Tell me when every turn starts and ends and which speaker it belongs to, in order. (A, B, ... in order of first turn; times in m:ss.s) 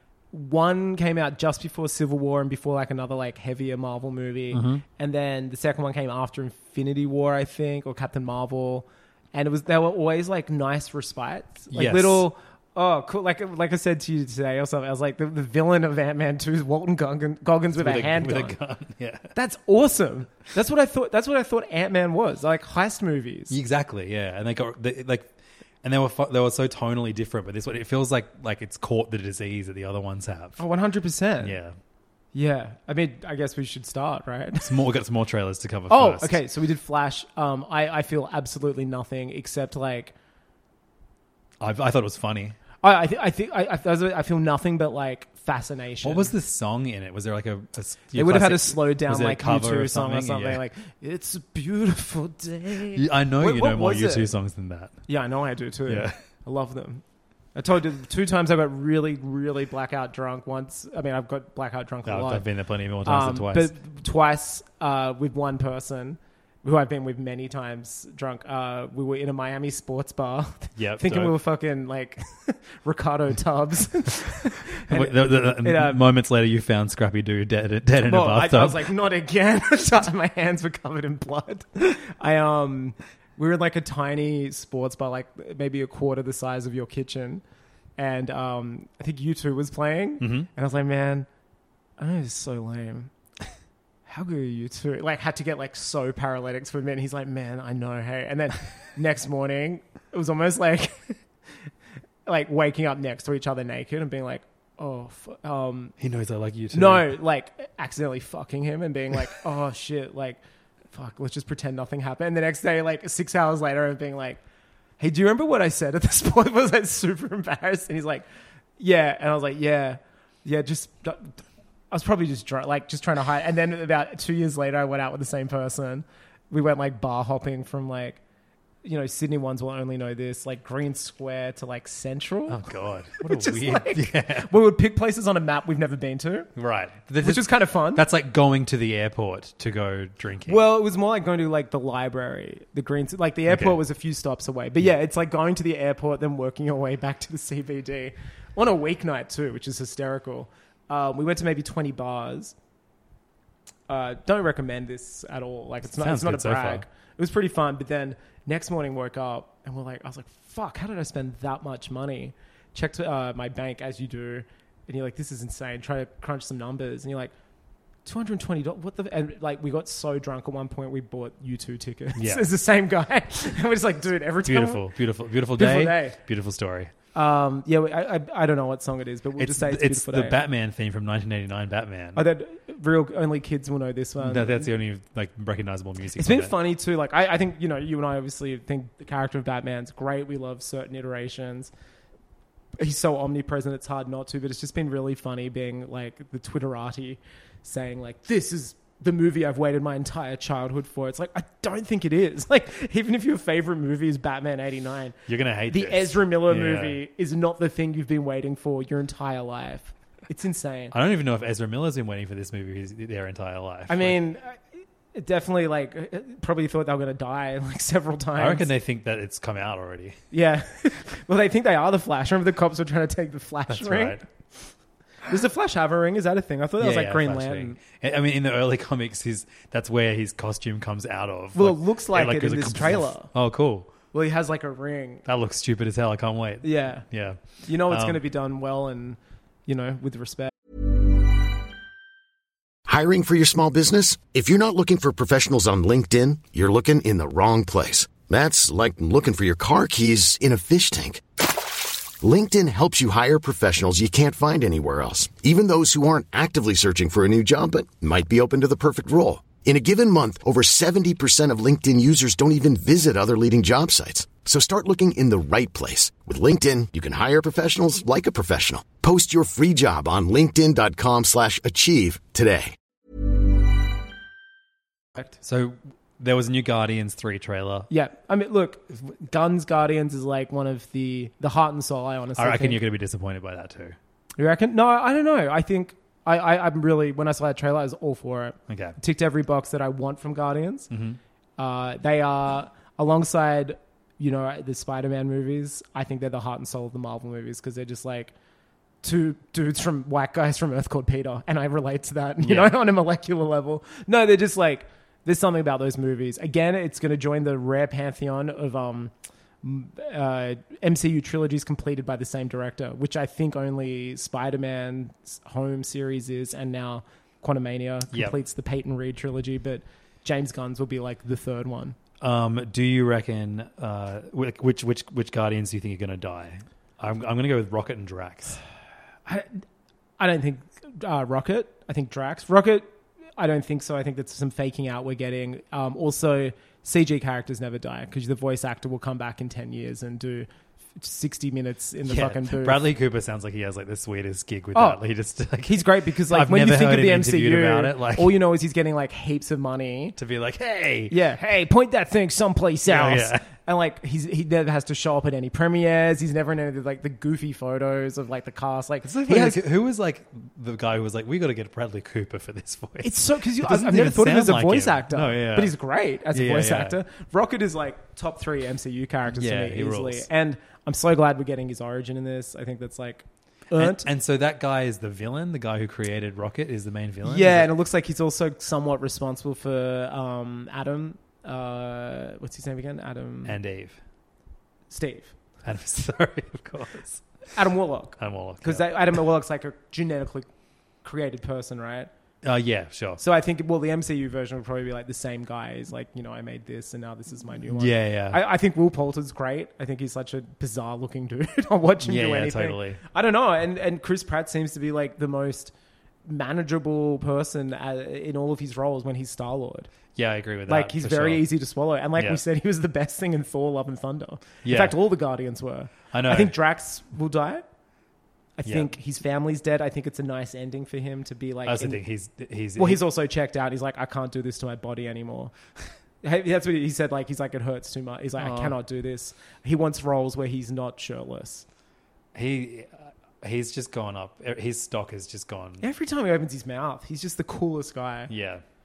0:00.3-0:18.6 A
0:04.5-0:04.8 B
0:11.7-0:12.3 B
0:17.8-0:19.3 B
0:19.3-0:23.6 A
0:23.5-0:25.3 B
0:25.8-0:30.6 B
0:30.6-0:31.6 A
0:31.4-0:31.8 B
0:32.3-0:34.7 A
0:34.6-0:36.4 B
0:35.9-0:40.1 A
0:41.6-0:42.6 B
0:42.8-0:46.3 A
0:46.0-0:50.6 B
0:48.1-0:54.3 A
0:53.0-0:55.0 B
0:55.1-0:57.0 A
0:55.9-0:56.2 B
0:57.6-1:02.4 A
1:02.1-1:03.7 B
1:03.0-1:16.0 A
1:10.8-1:11.3 B
1:14.9-1:18.9 B
1:18.0-1:27.4 A
1:28.0-1:31.3 A
1:30.2-1:30.5 B
1:32.0-1:33.1 A
1:34.1-1:41.2 A
1:42.3-1:46.0 A
1:46.0-1:47.1 B
1:46.7-1:50.4 A
1:50.9-1:54.4 A
1:55.0-1:58.2 A
1:58.8-2:01.4 A
2:01.9-2:08.2 A
2:08.8-2:12.6 A
2:12.5-2:14.5 B
2:13.2-2:16.5 A
2:16.6-2:20.6 B
2:17.2-2:18.0 A
2:20.5-2:32.6 A
2:23.5-2:23.8 B
2:33.9-2:47.3 A
2:35.8-2:36.8 B
2:48.0-2:54.8 A
2:52.2-2:52.4 B
2:54.4-2:56.9 B
2:55.6-2:56.2 A
2:57.2-3:00.4 A
2:59.4-3:02.2 B
3:02.2-3:04.7 A
3:04.2-3:06.5 B
3:06.2-3:11.7 A
3:12.8-3:25.2 A
3:25.3-3:27.0 B
3:25.7-3:30.9 A
3:30.9-3:34.2 B
3:33.9-3:38.7 A
3:38.4-3:40.2 B
3:40.3-3:44.2 A
3:43.7-3:44.2 B
3:45.3-3:47.8 A
3:46.8-3:53.9 B
3:51.6-3:53.3 A
3:54.1-3:55.2 A
3:55.3-3:58.2 B
3:56.6-4:00.5 A
4:02.9-4:32.8 C
4:35.4-4:37.9 B
4:37.9-4:42.8 A
4:42.4-4:44.0 B
4:44.4-4:50.9 A
4:48.7-4:49.0 B
4:50.9-4:51.2 B
4:51.6-4:58.3 A
4:59.0-5:09.1 A
5:02.4-5:02.8 B
5:09.6-5:22.0 A
5:22.2-5:28.6 B
5:29.3-5:29.6 A
5:30.2-5:42.8 A
5:42.1-5:48.4 B
5:44.7-5:45.0 A
5:45.6-5:50.2 A
5:50.2-5:51.2 B
5:51.1-5:59.6 A
5:52.9-5:53.5 B
5:59.0-6:05.8 B
6:03.0-6:14.1 A
6:06.3-6:07.0 B
6:09.3-6:10.3 B
6:13.8-6:17.7 B
6:17.2-6:23.6 A
6:23.4-6:24.0 B
6:24.9-6:25.3 A
6:25.6-6:27.2 B
6:27.5-6:30.5 A
6:28.2-6:29.0 B
6:31.0-6:32.1 A
6:32.4-6:33.2 B
6:33.2-6:45.7 A
6:37.7-6:38.4 B
6:42.0-6:43.0 B
6:46.3-6:49.9 A
6:50.2-6:51.5 B
6:50.7-6:57.6 A
6:52.2-6:52.4 B
6:54.6-6:55.0 B
6:56.1-6:56.6 B
6:58.6-7:02.0 A
6:58.7-6:58.9 B
7:01.7-7:03.0 B
7:02.8-7:05.5 A
7:06.2-7:11.7 A
7:08.4-7:08.8 B
7:12.4-7:15.8 B
7:15.8-7:18.3 A
7:18.3-7:18.6 B